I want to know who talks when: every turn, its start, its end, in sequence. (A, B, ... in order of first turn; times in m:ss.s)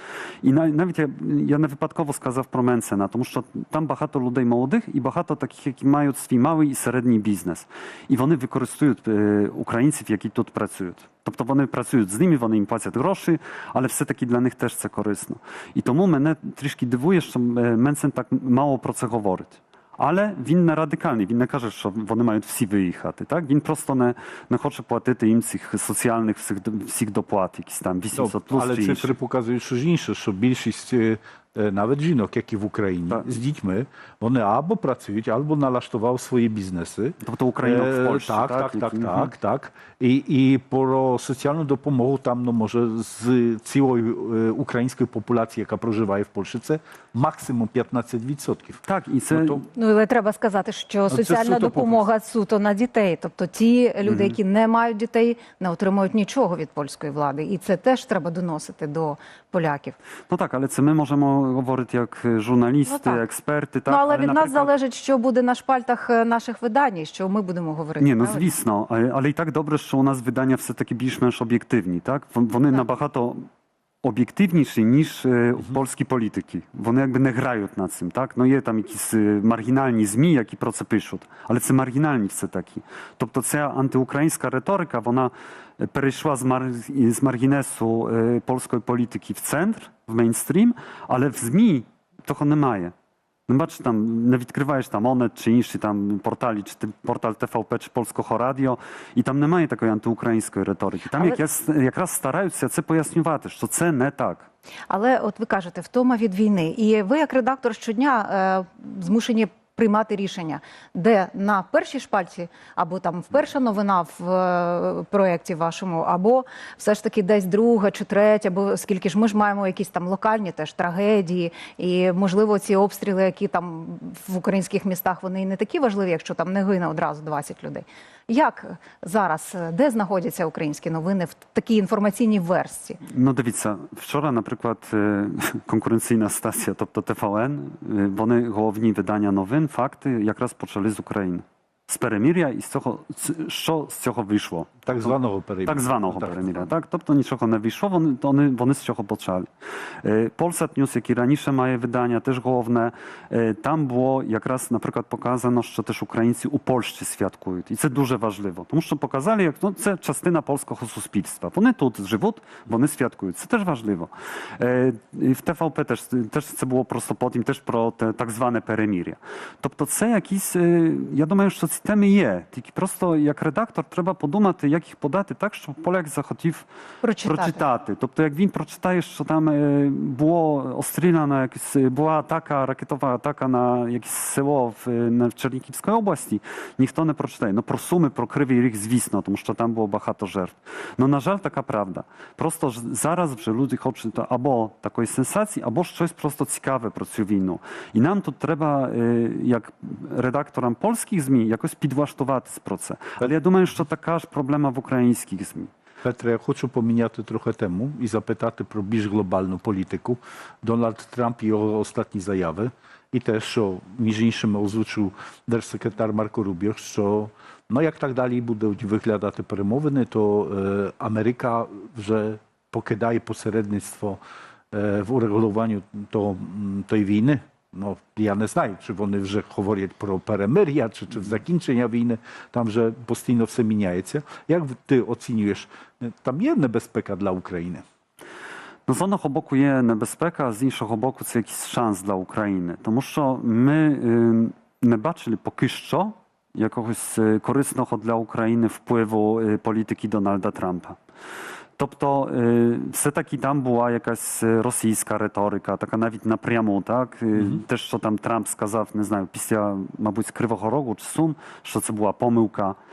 0:00.4-0:29.1 A
0:28.1-0:49.6 B
0:37.2-0:39.3 A
0:48.8-0:49.6 A
0:49.7-1:00.0 C
0:51.1-0:52.0 B
0:54.0-0:54.4 A
1:00.3-1:04.7 A
1:02.8-1:03.2 C
1:03.9-1:08.5 C
1:08.0-1:13.4 A
1:14.0-1:32.9 A
1:33.5-1:44.5 A
1:44.9-2:13.0 C
2:13.0-2:25.1 A
2:24.8-2:26.7 B
2:25.6-2:29.5 A
2:30.0-2:56.7 A
2:57.0-2:57.6 C
2:57.2-3:25.7 A
3:26.0-3:44.2 B
3:44.7-3:57.8 B
3:58.9-4:11.0 A
4:11.8-4:22.8 A
4:17.4-4:17.6 B